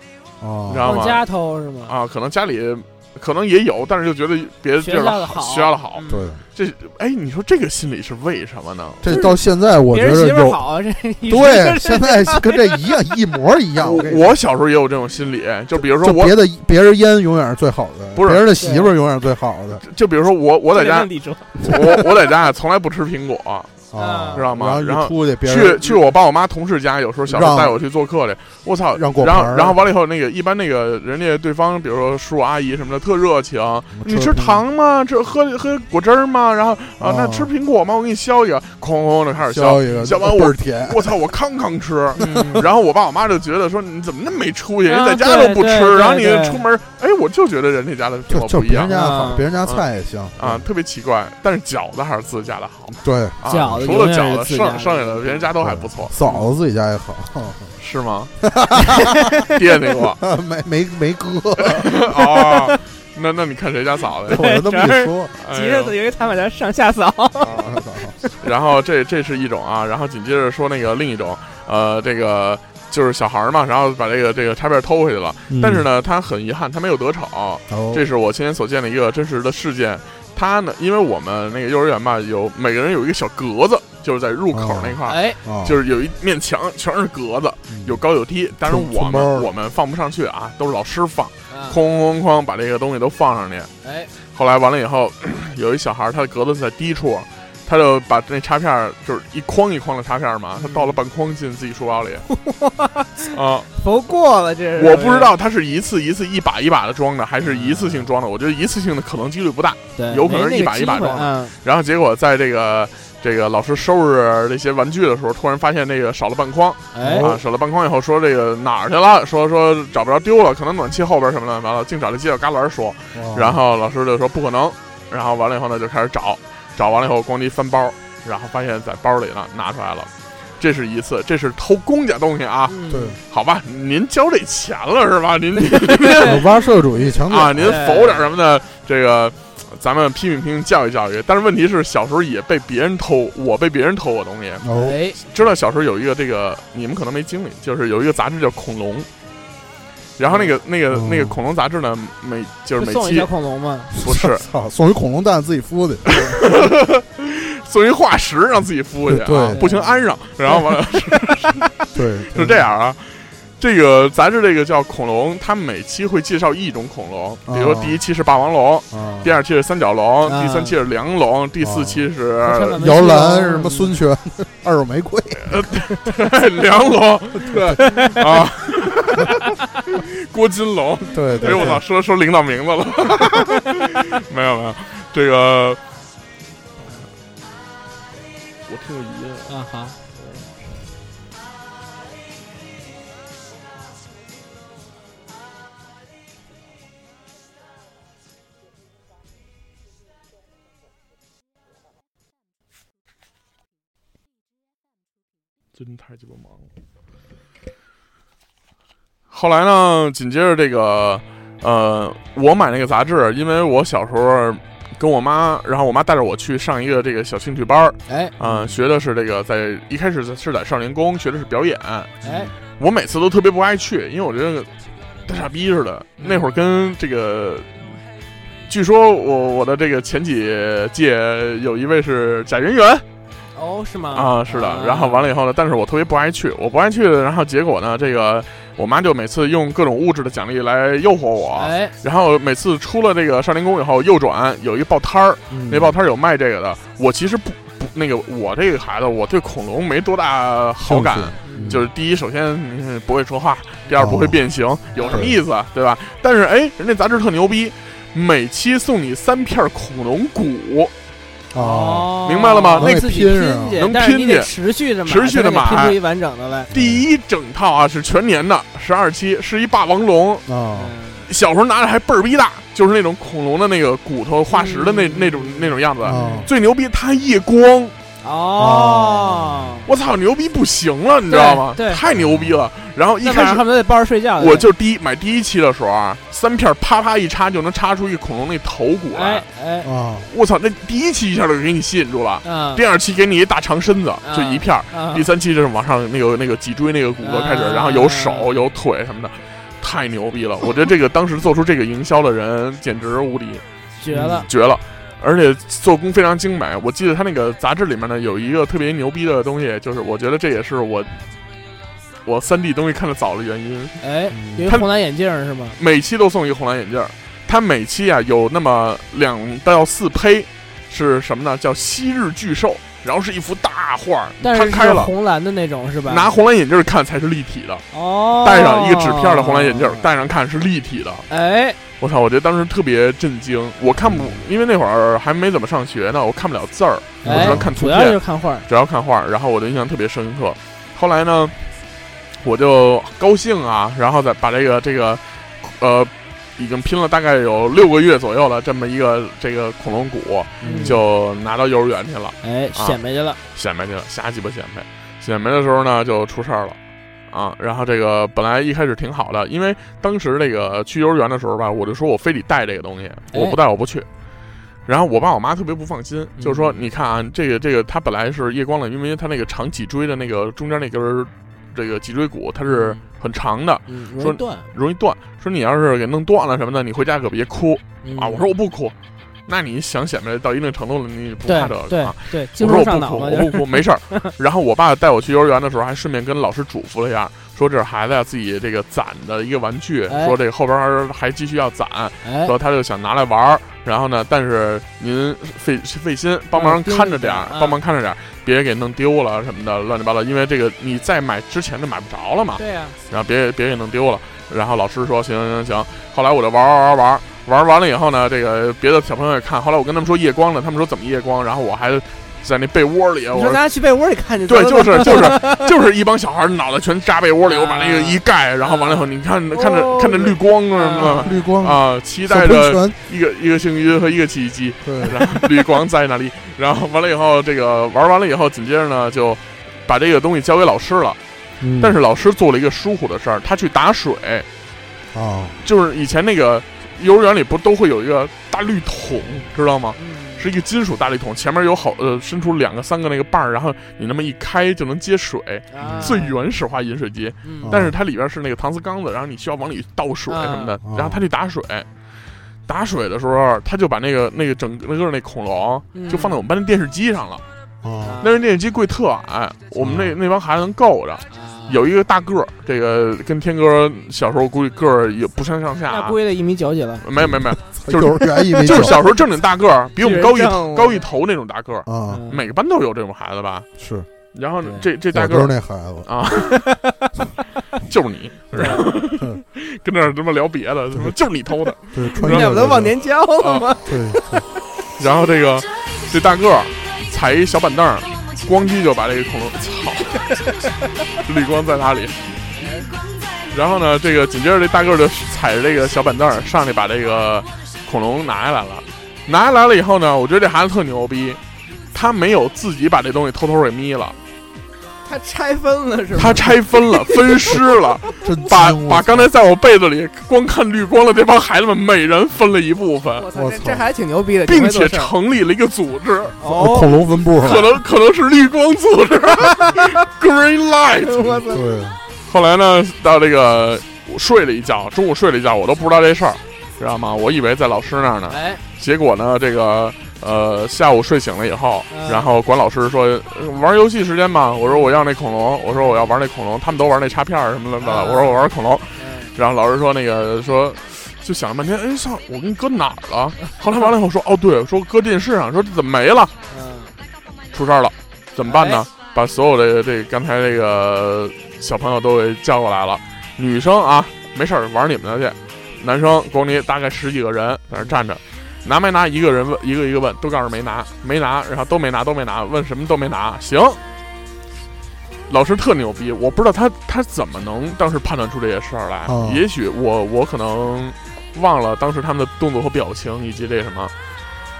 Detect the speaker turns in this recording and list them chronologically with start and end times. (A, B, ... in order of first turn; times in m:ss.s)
0:00.4-0:00.9 A
0:00.7-0:01.2 B
0:00.8-0:01.9 C
0:01.9-0:09.0 B
0:04.8-0:06.3 C
0:06.1-0:06.4 A
0:09.0-0:10.6 A
0:09.0-0:09.4 C
0:09.9-0:12.9 C
0:11.3-0:14.3 A
0:13.8-0:16.4 B
0:15.9-0:19.8 A
0:18.2-0:18.4 B
0:18.6-0:18.9 C
0:19.8-0:23.7 B
0:20.7-0:21.7 C
0:21.6-0:22.0 A
0:23.9-0:26.1 A
0:23.9-0:24.4 C
0:24.3-0:48.9 B
0:27.3-0:27.8 A
0:28.9-0:29.8 A
0:33.9-0:34.6 A
0:37.0-0:37.5 A
0:39.4-0:41.1 A
0:42.2-0:42.6 C
0:42.3-0:42.6 A
0:44.9-0:46.6 C
0:48.3-0:50.6 A
0:48.8-0:49.4 C
0:50.4-0:56.4 B
0:53.0-0:53.4 A
0:53.5-0:55.5 C
0:55.6-0:57.7 A
0:57.8-0:58.3 B
0:58.4-0:59.4 A
0:58.8-0:59.5 C
0:59.5-1:00.2 B
1:00.2-1:01.9 A
1:01.6-1:04.4 B
1:02.2-1:02.8 C
1:04.3-1:05.3 A
1:04.3-1:07.7 C
1:05.4-1:05.9 B
1:07.4-1:07.8 B
1:07.5-1:08.2 A
1:08.4-1:33.7 B
1:15.5-1:15.9 A
1:17.7-1:18.0 A
1:24.5-1:25.8 A
1:25.0-1:25.4 C
1:27.7-1:28.0 A
1:28.6-1:29.5 A
1:31.5-1:31.8 C
1:33.8-1:34.1 C
1:34.3-1:42.3 B
1:40.6-1:41.0 C
1:42.3-1:45.3 C
1:43.3-1:43.7 B
1:44.8-2:16.6 B
1:47.4-1:48.1 C
1:50.0-1:51.5 C
1:56.9-1:57.3 C
1:57.0-1:57.4 A
2:03.1-2:03.6 A
2:12.7-2:13.2 C
2:12.9-2:13.2 A
2:15.6-2:16.4 C
2:16.2-2:17.8 A
2:17.2-2:24.6 B
2:17.6-2:18.2 C
2:24.6-2:25.0 A
2:24.7-2:25.2 C
2:25.2-2:29.1 B
2:30.2-2:33.3 B
2:30.3-2:30.5 C
2:30.9-2:31.4 A
2:32.8-2:33.9 C
2:33.9-2:36.2 A
2:34.0-2:34.4 B
2:36.1-2:53.0 B
2:36.1-2:36.4 C
2:39.1-2:39.6 A
2:39.5-2:40.6 C
2:41.9-2:42.6 A
2:47.5-2:48.0 A
2:48.9-2:49.3 A
2:50.3-2:50.8 C
2:51.6-2:52.0 A
2:52.4-2:53.9 C
2:52.7-2:55.7 A
2:55.4-3:05.8 B
2:57.5-2:57.7 A
2:57.8-2:58.2 C
3:01.1-3:01.8 A
3:01.4-3:01.7 C
3:03.4-3:04.0 C
3:08.7-3:09.5 B
3:09.5-3:10.0 C
3:10.1-3:10.5 B
3:25.7-3:26.6 B
3:29.3-3:44.7 B
3:38.1-3:38.7 C
3:42.2-3:42.5 C
3:45.2-3:48.0 B
3:46.2-3:46.5 C
3:48.7-3:53.0 B
3:53.5-3:55.3 C
3:54.1-4:20.9 B
4:01.6-4:01.9 C
4:05.5-4:06.0 A
4:10.8-4:11.8 A
4:11.4-4:11.8 C
4:14.0-4:14.4 A
4:14.9-4:15.3 C
4:15.1-4:15.4 A
4:21.5-4:22.2 A
4:21.6-4:26.7 C
4:22.2-4:23.0 B
4:22.8-4:23.8 A
4:23.8-4:24.5 B
4:25.0-4:26.0 B
4:26.7-4:27.0 A
4:26.7-4:30.4 B
4:30.5-4:30.9 A
4:30.7-4:31.3 C
4:31.3-4:37.9 B
4:34.5-4:36.5 C
4:36.0-4:36.5 A
4:38.2-4:39.9 C
4:38.6-4:39.6 A
4:39.8-4:43.6 B
4:41.3-4:42.0 C
4:42.1-4:42.6 A
4:43.2-4:44.7 C
4:44.4-4:49.4 B
4:49.1-4:49.9 C
4:49.8-4:50.3 A
4:50.2-5:03.6 B
4:52.4-4:52.8 C
4:54.2-4:55.3 C
4:57.2-4:58.5 C
5:04.0-5:04.5 C
5:04.1-5:04.4 A
5:04.4-5:11.1 B
5:12.2-5:14.0 B
5:14.0-5:15.8 C
5:14.3-5:14.7 A
5:15.8-5:25.1 B
5:24.4-5:26.3 C
5:26.0-5:27.8 B
5:27.9-5:30.0 C
5:28.4-5:31.2 B
5:31.3-5:31.8 C
5:32.0-5:41.6 B
5:34.1-5:34.3 A
5:37.2-5:37.7 A
5:37.2-5:38.6 C
5:42.4-5:53.0 B
5:50.6-5:51.0 A
5:50.6-5:51.0 C
5:52.4-5:53.4 C
5:53.5-5:56.8 B
5:57.3-6:04.1 B
6:03.3-6:03.6 C
6:04.8-6:18.9 B
6:06.4-6:06.8 C
6:12.6-6:13.0 C
6:13.9-6:14.6 C
6:18.0-6:18.4 C
6:19.5-6:53.6 B
6:21.4-6:24.3 C
6:30.1-6:30.3 C
6:32.2-6:32.5 C
6:36.5-6:37.8 C
6:42.6-6:43.0 C
6:53.3-6:55.7 C
6:54.5-7:11.2 B
6:57.4-7:01.4 C
7:01.1-7:03.0 A
7:04.8-7:05.4 A
7:11.6-7:12.0 A
7:11.8-7:14.5 B
7:15.1-7:15.6 A
7:15.6-7:31.9 B
7:20.0-7:20.5 C
7:25.7-7:26.4 C
7:25.8-7:26.2 A
7:27.4-7:27.7 C
7:27.6-7:28.0 A
7:30.3-7:30.8 C
7:30.8-7:31.2 A
7:32.7-7:37.4 B
7:35.9-7:36.4 C
7:37.8-7:38.2 A
7:38.0-7:38.4 C
7:38.2-7:46.2 B
7:39.8-7:40.2 A
7:41.3-7:41.8 C
7:45.9-7:47.0 C
7:47.0-7:53.7 B
7:47.2-7:49.1 A
7:50.0-7:51.0 C
7:51.8-7:52.2 A
7:52.1-7:52.4 C
7:53.8-7:54.1 A
7:54.3-7:56.7 B
7:55.1-7:56.1 A
7:56.4-7:57.0 C
7:57.9-8:02.6 B
7:58.5-7:58.9 C
7:58.5-7:59.4 A
8:01.9-8:03.0 A
8:02.2-8:04.6 C
8:03.4-8:03.7 B
8:03.8-8:04.4 A
8:05.0-8:10.3 B
8:10.4-8:10.7 C
8:11.2-8:12.4 B
8:12.5-8:12.9 C
8:13.5-8:21.4 B
8:21.9-8:24.2 B
8:25.0-8:27.6 C
8:26.1-8:33.3 B
8:28.2-8:29.3 A
8:33.2-8:35.1 C
8:33.3-8:33.8 A
8:34.5-8:36.4 B
8:36.4-8:36.9 C
8:36.4-8:37.7 A
8:37.4-8:41.4 B
8:39.4-8:40.0 C
8:41.0-8:41.7 C
8:41.5-8:42.0 A
8:42.2-9:06.3 B
8:48.3-8:48.6 C
8:51.9-8:52.3 C
8:55.7-8:56.1 C
8:57.8-8:59.4 C
9:06.5-9:06.9 C
9:07.5-9:23.8 B
9:08.4-9:08.8 C
9:25.3-9:33.9 B
9:29.0-9:29.4 A